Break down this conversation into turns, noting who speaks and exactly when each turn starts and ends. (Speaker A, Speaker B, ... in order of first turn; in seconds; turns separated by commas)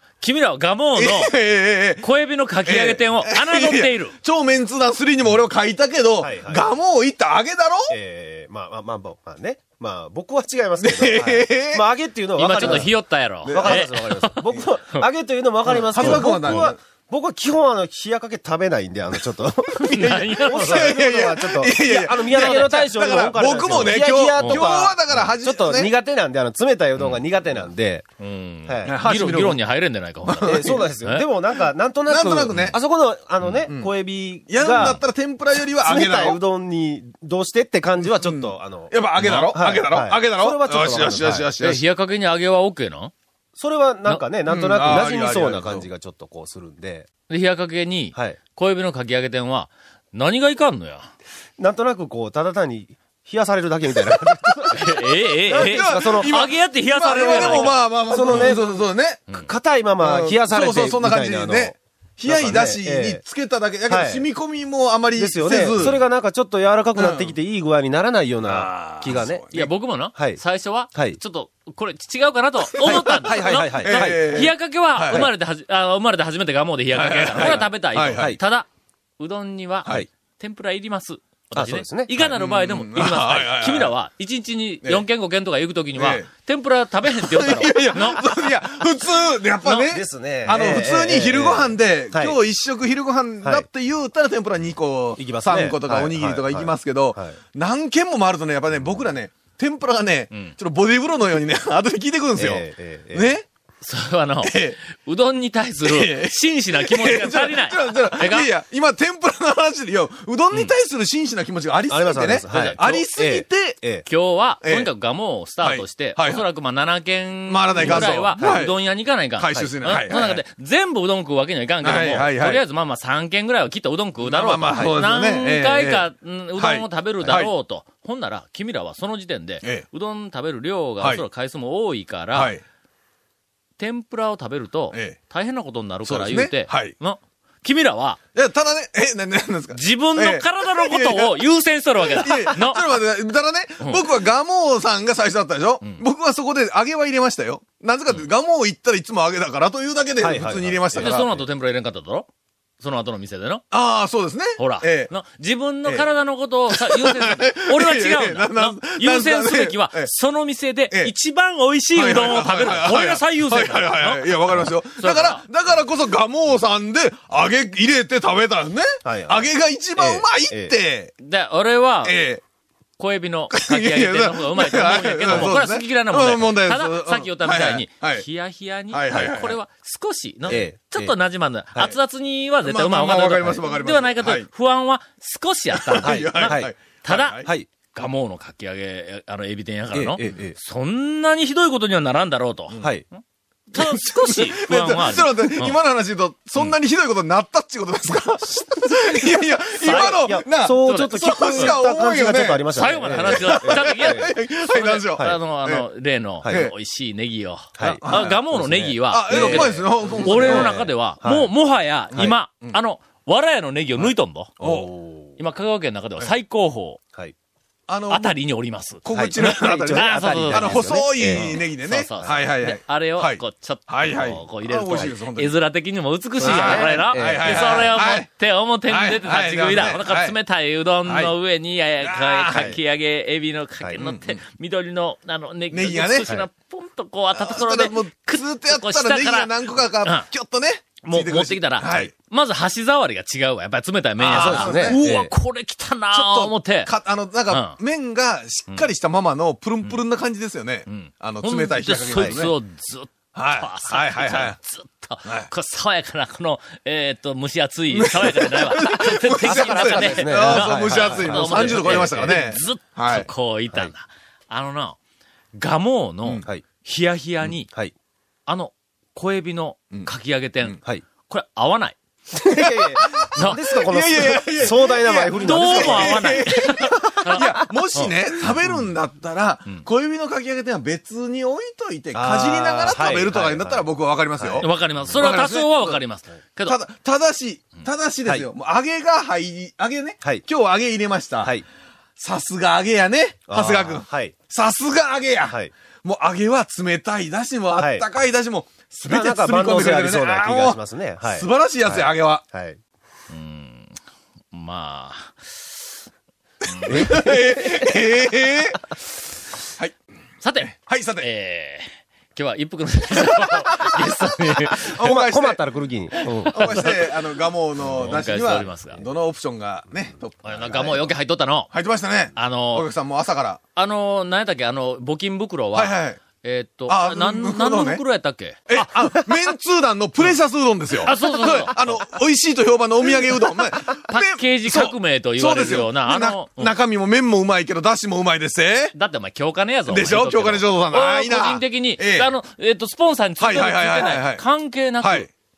Speaker A: 0.2-1.4, Speaker B: 1.0-2.1, Speaker A: 2.0-4.2, Speaker B: 2.7-7.9, Speaker C: 6.2-6.7, Speaker C: 7.9-12.9, Speaker B: 10.8-11.8, Speaker A: 12.4-15.1, Speaker B: 13.4-13.9, Speaker C: 13.5-28.1, Speaker A: 15.7-16.7, Speaker B: 15.7-16.8, Speaker A: 19.8-20.9, Speaker B: 19.8-25.9, Speaker A: 23.7-24.7, Speaker A: 28.2-31.3, Speaker C: 28.7-29.0, Speaker B: 28.9-29.6, Speaker B: 30.2-30.9, Speaker C: 30.4-35.0, Speaker B: 32.1-32.8, Speaker B: 34.5-36.4, Speaker C: 35.8-41.5, Speaker B: 38.1-41.8, Speaker A: 39.2-39.5, Speaker A: 41.6-43.1, Speaker C: 43.6-47.1, Speaker B: 44.5-45.9, Speaker A: 47.3-51.1, Speaker C: 51.6-56.5, Speaker A: 54.7-58.6, Speaker B: 55.5-59.2, Speaker C: 57.1-58.8, Speaker C: 59.3-63.2, Speaker B: 60.0-66.0, Speaker C: 63.9-64.3, Speaker C: 65.2-69.4, Speaker B: 67.0-67.3, Speaker B: 68.4-69.7, Speaker A: 69.1-78.7, Speaker C: 70.2-70.4, Speaker C: 70.9-71.2, Speaker B: 72.7-75.3, Speaker C: 72.8-74.5, Speaker B: 76.9-78.3, Speaker C: 78.1-78.4, Speaker A: 79.2-88.5, Speaker C: 81.5-82.1, Speaker B: 82.2-83.9, Speaker B: 86.0-86.3, Speaker B: 87.1-103.5, Speaker C: 89.9-92.4, Speaker C: 95.2-97.4, Speaker C: 102.4-103.3, Speaker A: 103.8-108.5, Speaker B: 104.4-104.8, Speaker B: 105.8-113.8, Speaker C: 111.9-114.1, Speaker A: 112.5-113.0, Speaker A: 114.1-132.5, Speaker B: 114.6-114.9, Speaker B: 115.6-116.5, Speaker B: 117.5-120.4, Speaker C: 117.8-118.7, Speaker B: 121.8-122.6, Speaker B: 124.2-126.0, Speaker C: 124.7-125.0, Speaker B: 126.6-127.5, Speaker B: 132.3-132.6, Speaker A: 133.8-138.2, Speaker B: 136.1-136.9, Speaker B: 138.3-141.4, Speaker A: 139.7-142.9, Speaker B: 142.0-151.3, Speaker C: 150.2-151.4, Speaker A: 151.0-152.3, Speaker A: 152.8-153.6, Speaker B: 153.7-155.1, Speaker A: 154.6-165.4, Speaker B: 156.7-160.1, Speaker B: 161.9-171.2, Speaker C: 169.1-170.8, Speaker A: 171.2-172.2, Speaker B: 172.1-172.4, Speaker A: 173.0-192.8, Speaker B: 173.5-178.3, Speaker B: 178.9-179.6, Speaker C: 180.5-181.2, Speaker B: 182.6-184.5, Speaker B: 185.8-187.5, Speaker C: 186.0-186.7, Speaker C: 189.9-190.6, Speaker A: 193.7-195.8, Speaker B: 193.8-205.8, Speaker A: 199.8-201.8, Speaker C: 199.8-204.3, Speaker A: 202.7-214.6, Speaker B: 206.5-206.7, Speaker C: 207.8-211.5, Speaker B: 208.0-208.4, Speaker B: 209.1-210.8, Speaker B: 212.2-212.8, Speaker B: 214.6-214.9, Speaker C: 214.6-215.3, Speaker A: 215.4-217.0, Speaker B: 217.9-218.3, Speaker A: 218.1-240.3, Speaker B: 219.0-225.6, Speaker C: 219.1-221.6, Speaker C: 224.1-224.4, Speaker C: 226.4-227.9, Speaker B: 226.4-228.3, Speaker B: 228.9-230.3, Speaker B: 231.1-231.3, Speaker B: 232.0-232.8, Speaker B: 234.0-234.3, Speaker B: 235.7-236.3, Speaker B: 237.3-242.1, Speaker A: 241.0-246.9, Speaker B: 244.2-245.3, Speaker C: 244.3-245.3, Speaker B: 246.1-252.5, Speaker A: 247.5-247.8, Speaker A: 250.9-265.0, Speaker C: 252.1-252.5, Speaker B: 253.3-254.6, Speaker B: 255.2-255.5, Speaker B: 257.9-263.3, Speaker C: 259.4-262.4, Speaker A: 265.6-267.7, Speaker C: 267.6-267.9, Speaker A: 268.5-272.0, Speaker C: 272.3-276.7, Speaker B: 272.6-286.0, Speaker A: 273.3-273.9, Speaker A: 275.4-278.1, Speaker C: 282.1-283.9, Speaker C: 284.4-284.7, Speaker A: 284.6-286.8, Speaker B: 286.7-291.6, Speaker B: 292.2-302.4, Speaker C: 293.5-294.4, Speaker C: 295.5-295.7, Speaker C: 297.8-298.1, Speaker C: 299.1-302.8, Speaker A: 303.3-304.0, Speaker A: 304.5-305.9, Speaker B: 306.7-308.9, Speaker A: 306.7-307.2, Speaker C: 306.9-307.9, Speaker B: 309.7-310.0, Speaker A: 310.4-315.1, Speaker B: 310.6-311.3, Speaker C: 314.7-316.9, Speaker B: 314.7-315.6, Speaker B: 316.4-321.1, Speaker A: 316.6-317.0, Speaker C: 317.9-318.2, Speaker A: 317.9-319.0, Speaker A: 320.4-321.7, Speaker C: 320.7-320.9, Speaker B: 321.7-323.6, Speaker A: 322.4-322.9, Speaker A: 323.8-328.9, Speaker B: 325.8-326.2, Speaker B: 326.9-328.0, Speaker B: 328.7-338.9, Speaker A: 331.0-331.8, Speaker A: 334.1-336.7, Speaker A: 338.9-345.3, Speaker B: 339.9-342.3, Speaker B: 343.4-344.4, Speaker B: 345.0-345.3